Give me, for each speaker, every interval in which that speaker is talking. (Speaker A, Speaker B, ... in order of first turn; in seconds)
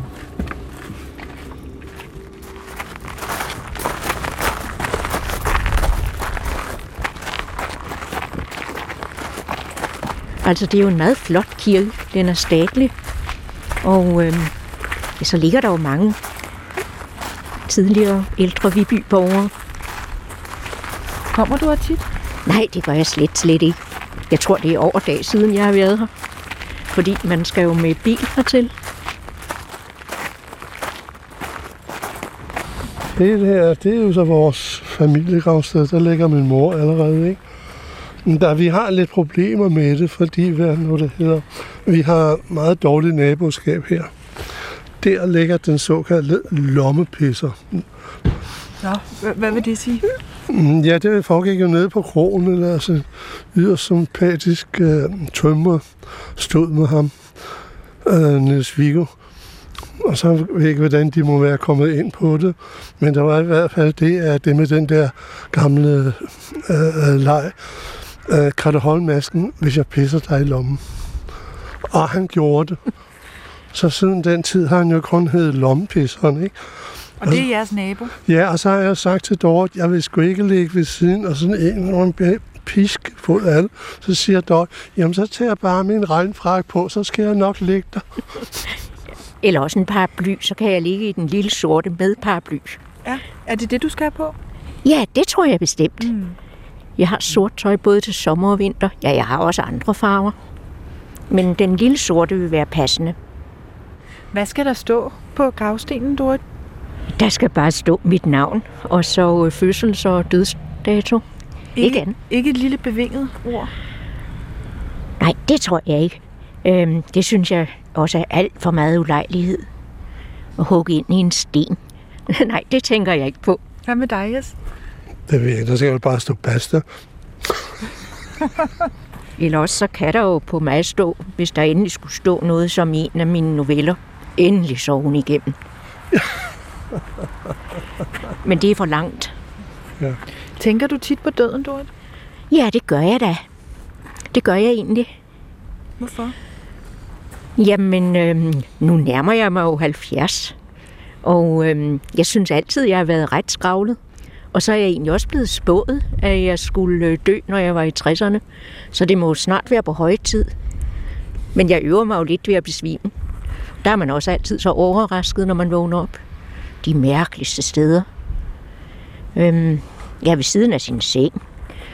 Speaker A: 10.4-12.9, 13.8-14.5, 15.2-16.2, 17.6-19.5, 22.4-23.8, 24.3-26.1, 26.9-28.7, 89.4-92.8, 94.8-96.1, 97.0-100.3, 101.3-103.2, 107.1-111.2, 111.8-112.2, 115.2-119.7, 120.6-123.6, 129.4-135.6, 138.4-139.3, 142.5-143.5, 144.3-145.1, 147.6-150.5, 151.2-154.0, 154.5-160.5, 161.5-163.1, 163.8-166.2, 166.8-168.1, 169.3-171.4
Speaker B: 21.3-22.0, 48.8-50.0, 77.2-78.1, 93.0-94.3, 96.0-96.3, 104.3-106.4, 111.8-113.7, 123.8-124.5, 140.6-141.9, 146.0-146.3
Speaker C: 33.1-37.4, 38.2-44.1, 45.0-47.9, 50.5-57.4, 58.0-59.2, 60.0-70.9, 71.9-72.9, 73.7-76.6, 78.2-88.6, 125.3-126.8